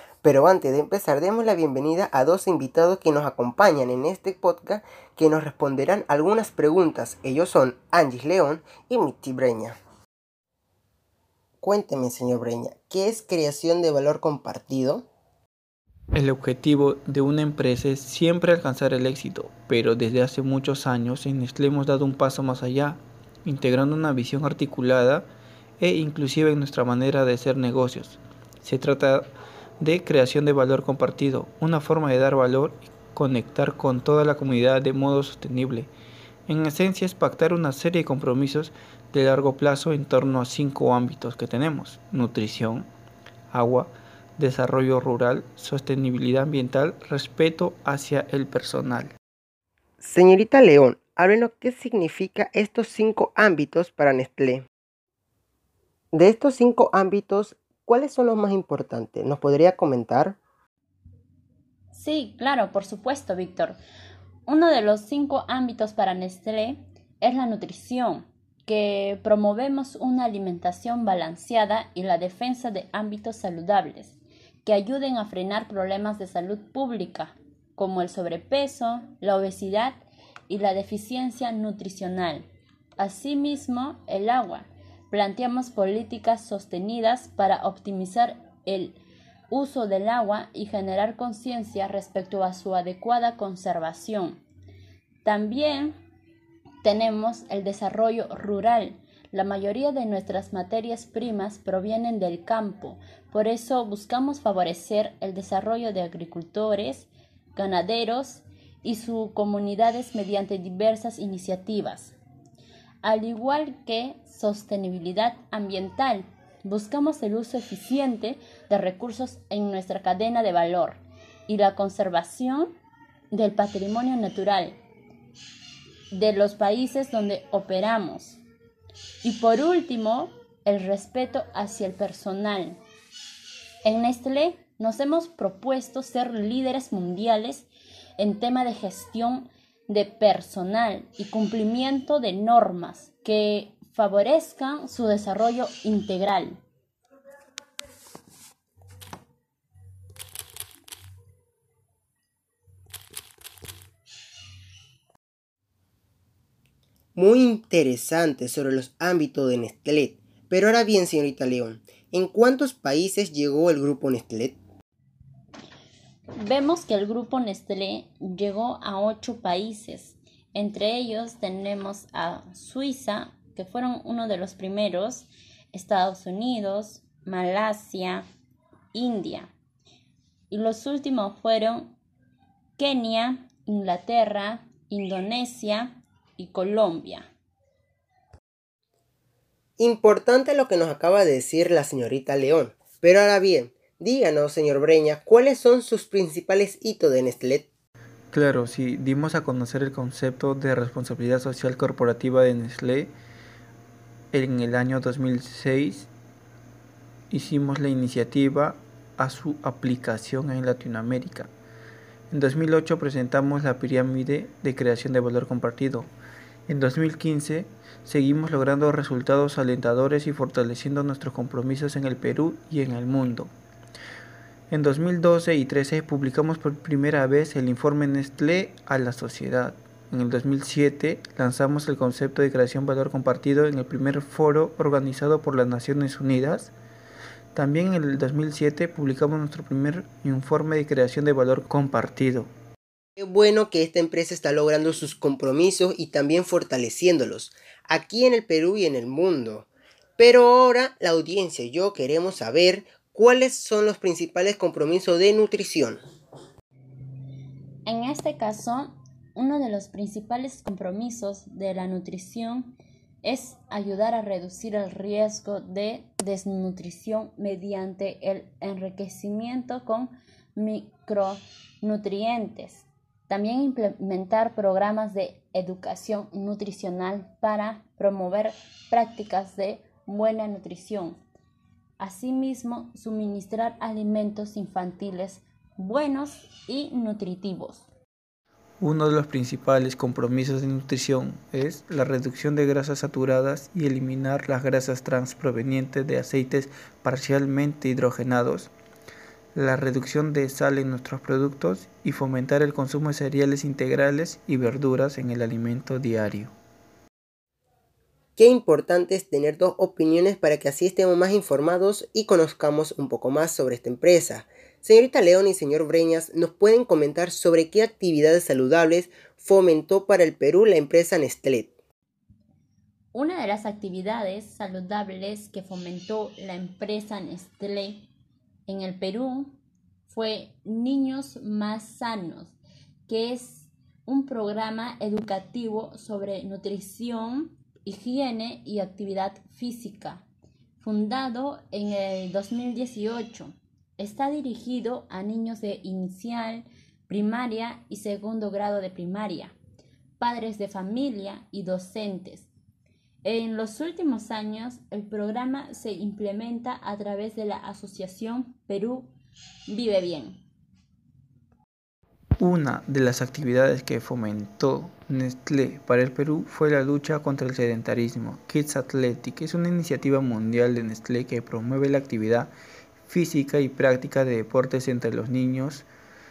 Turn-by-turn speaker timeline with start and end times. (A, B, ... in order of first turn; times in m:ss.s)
0:00.2-0:09.8 A
0:11.6-0:15.1 A
0:16.1-0:25.3 B
0:25.8-0:29.3 B
0:29.8-0:35.9 B
0:36.5-0:42.9 B
0:43.5-0:49.1 B
0:50.0-0:54.7 A
0:56.1-1:00.4 A
1:01.9-1:03.8 C
1:04.5-1:22.4 C
1:23.0-1:29.0 C
1:29.5-1:34.4 C
1:35.2-1:35.9 C
1:36.8-1:52.1 C
1:53.0-2:02.7 C
2:03.3-2:04.8 C
2:06.1-2:08.4 C
2:09.2-2:12.8 C
2:13.8-2:26.6 C
2:37.2-2:44.6 A
2:46.4-2:58.2 C
2:58.9-2:59.5 C
3:00.5-3:01.9 C
3:02.8-3:07.3 C
3:09.8-3:17.7 A
3:18.3-3:23.1 B
3:24.3-3:26.1 B
3:27.3-3:31.5 B
3:32.3-3:36.1 B
3:36.7-3:43.5 B
3:44.7-3:56.7 B
3:57.5-4:02.5 B
4:03.2-4:16.0 A
4:17.8-4:41.2 C
4:42.0-4:47.8 C
4:48.8-4:58.7 B
4:59.5-5:06.5 B
5:08.4-5:21.7 A
5:23.1-5:28.1 C
5:28.7-5:29.6 C
5:30.1-5:32.6 C
5:33.1-5:40.2 C
5:40.8-5:49.6 C
5:50.2-5:52.5 C
5:53.2-5:59.1 C
5:59.7-6:00.4 C
6:02.4-6:12.5 B
6:13.0-6:15.9 B